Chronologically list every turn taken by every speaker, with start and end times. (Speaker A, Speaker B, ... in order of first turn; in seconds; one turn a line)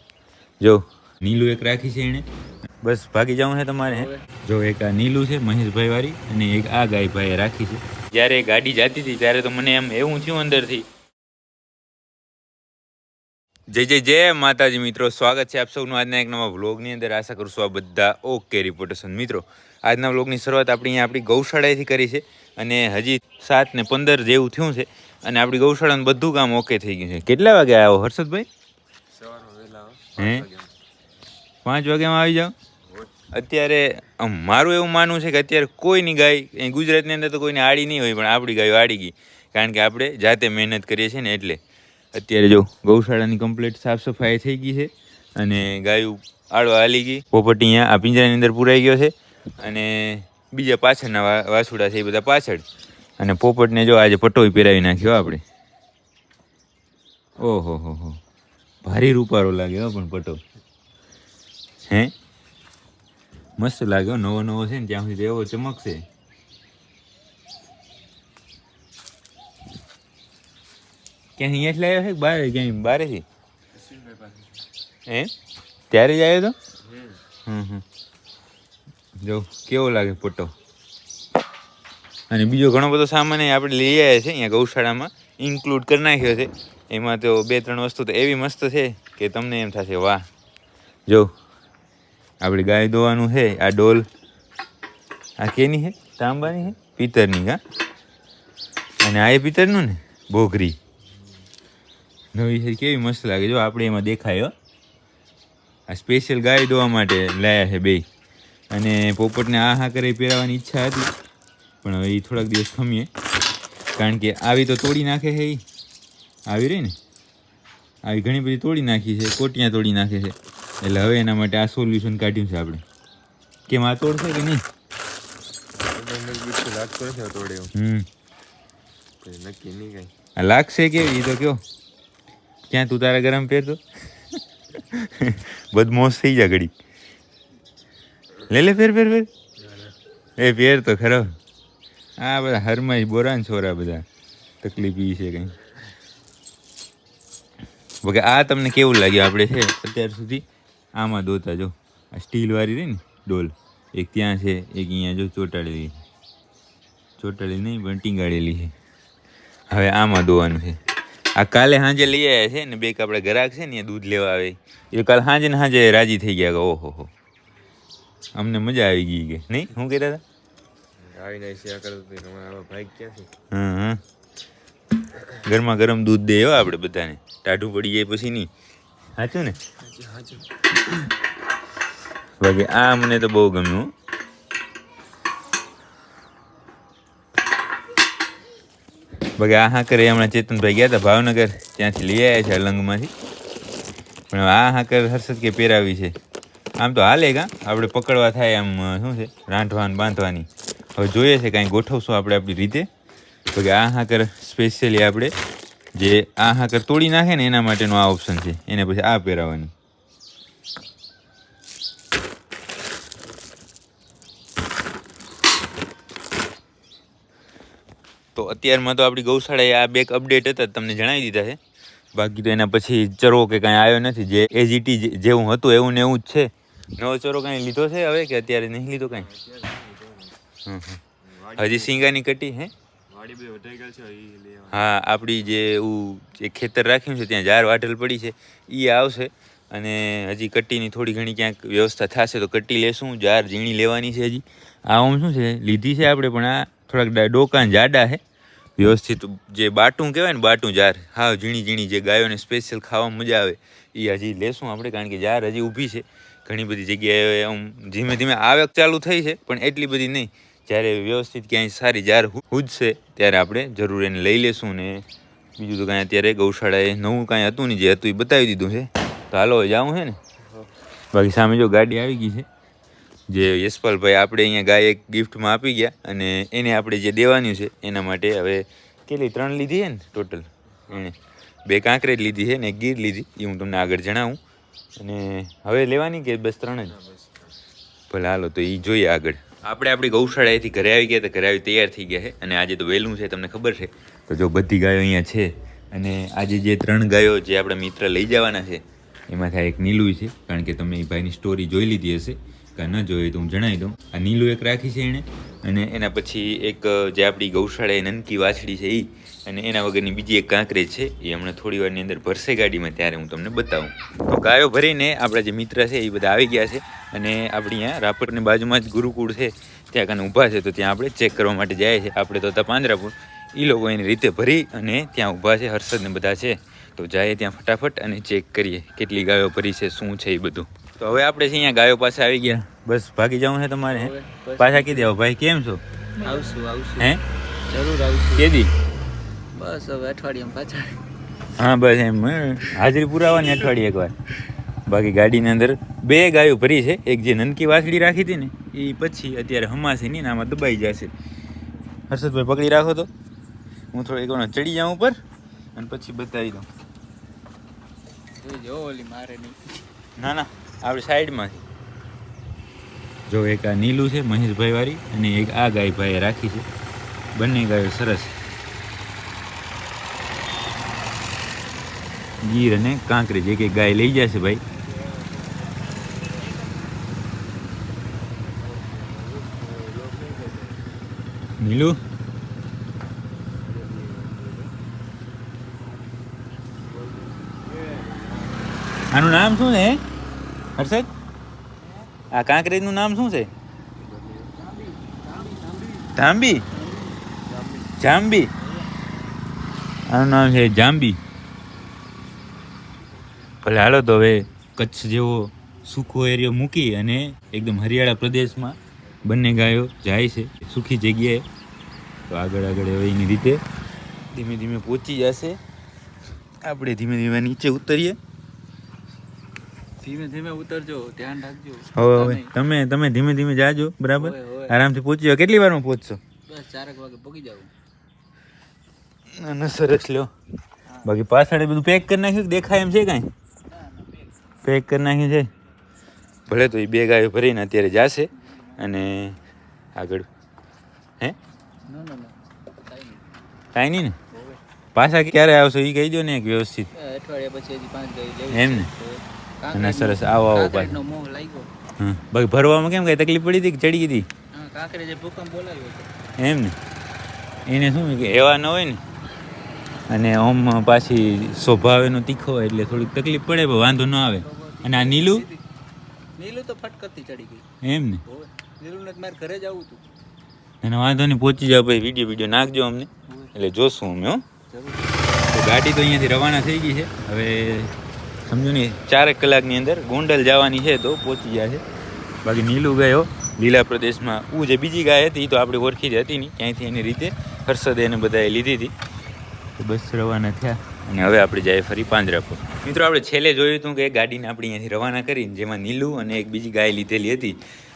Speaker A: 0.6-2.2
Speaker A: 2.8-10.8
Speaker B: 3.9-4.2
Speaker A: 13.7-28.5
Speaker C: 29.2-30.7
Speaker A: 30.2-30.5
Speaker A: 31.6-32.5
Speaker A: 33.3-41.6
Speaker A: 42.1-52.6
Speaker A: 53.2-55.4
Speaker A: 57.4-58.2
Speaker A: 58.8-60.4
Speaker A: 61.9-62.1
Speaker A: 63.6-66.0
Speaker A: 71.4-73.2
Speaker C: 73.9-74.3
Speaker A: 75.1-75.3
Speaker A: 75.9-76.5
Speaker A: 77.5-77.8
Speaker A: 79.2-80.5
Speaker A: 82.3-90.2
Speaker A: 92.4-94.0
Speaker A: 95.4-97.6
Speaker A: 99.0-100.8
Speaker A: 102.3-104.5
Speaker A: 105.9-108.0
Speaker A: 108.7-111.1
Speaker A: 111.8-113.1
Speaker A: 114.0-115.6
Speaker A: 116.5-117.0
Speaker A: 118.0-122.8
Speaker A: 123.7-124.6
Speaker C: 125.8-127.7
Speaker A: 127.7-128.1
Speaker C: 129.2-130.1
Speaker A: 130.4-131.6
Speaker A: 132.7-133.8
Speaker A: 134.4-136.7
Speaker A: 138.4-139.3
Speaker A: 140.4-141.3
Speaker A: 142.2-144.1
Speaker A: 144.6-145.6
Speaker A: 148.0-150.4
Speaker A: 150.9-156.0
Speaker A: 157.2-158.7
Speaker A: 159.7-160.8
Speaker A: 161.3-167.1
Speaker A: 168.3-170.2
Speaker C: 171.0-173.3
Speaker A: 173.5-174.0
Speaker A: 175.2-178.5
Speaker A: 179.2-179.6
Speaker C: 179.8-180.5
Speaker A: 182.4-183.9
Speaker A: 189.4-193.1
Speaker A: 194.3-196.1
Speaker A: 196.8-202.9
Speaker A: 203.5-205.3
Speaker A: 205.9-209.7
Speaker A: 218.3-221.6
Speaker A: 222.1-229.3
Speaker C: 229.3-230.3
Speaker A: 230.6-231.0
Speaker C: 231.2-232.1
Speaker A: 231.5-232.7
Speaker C: 233.1-234.8
Speaker A: 234.7-248.2
Speaker A: 248.8-265.0
Speaker A: 265.6-270.2
Speaker A: 271.1-272.5
Speaker A: 273.3-284.4
Speaker A: 285.0-287.0
Speaker A: 288.1-335.8
Speaker B: 333.9-335.1
Speaker B: 336.2-337.1
Speaker A: 337.0-337.2
Speaker B: 337.7-338.5
Speaker A: 338.3-338.7
Speaker B: 339.5-341.0
Speaker A: 341.5-344.1
Speaker A: 344.9-351.1
Speaker A: 352.1-353.1
Speaker A: 353.9-355.2
Speaker A: 355.7-356.7
Speaker B: 358.4-359.8
Speaker A: 360.2-361.6
Speaker A: 363.3-366.6
Speaker A: 367.3-368.3
Speaker A: 372.4-374.6
Speaker C: 375.0-376.6
Speaker C: 378.4-380.8
Speaker A: 381.6-382.0
Speaker C: 383.5-384.7
Speaker C: 386.9-388.6
Speaker A: 389.1-390.0
Speaker A: 390.8-391.1
Speaker A: 392.3-393.5
Speaker C: 394.0-394.6
Speaker B: 394.6-396.1
Speaker A: 396.1-396.7
Speaker B: 396.7-397.2
Speaker C: 397.4-397.9
Speaker A: 398.0-398.5
Speaker A: 400.1-401.2
Speaker A: 403.6-411.4
Speaker A: 412.3-413.6
Speaker A: 414.3-415.6
Speaker A: 416.6-418.2
Speaker B: 420.0-422.5
Speaker A: 421.9-426.2
Speaker B: 424.1-424.8
Speaker B: 426.5-427.7
Speaker A: 429.3-430.3
Speaker A: 431.0-433.3
Speaker B: 433.7-434.3
Speaker A: 434.6-435.5
Speaker A: 436.5-439.4
Speaker A: 439.9-440.3
Speaker B: 441.9-443.2
Speaker A: 443.7-444.2
Speaker B: 444.3-444.6
Speaker A: 444.9-446.9
Speaker B: 446.9-451.7
Speaker A: 448.5-448.9
Speaker A: 449.7-451.0
Speaker A: 452.0-454.3
Speaker B: 454.5-456.1
Speaker A: 456.4-456.8
Speaker A: 457.6-459.0
Speaker A: 460.1-465.5
Speaker B: 464.4-465.6
Speaker B: 466.4-467.6
Speaker A: 467.8-468.2
Speaker B: 468.2-470.0
Speaker A: 470.8-474.4
Speaker B: 474.7-475.2
Speaker A: 475.5-481.8
Speaker A: 482.4-488.9
Speaker A: 489.8-497.6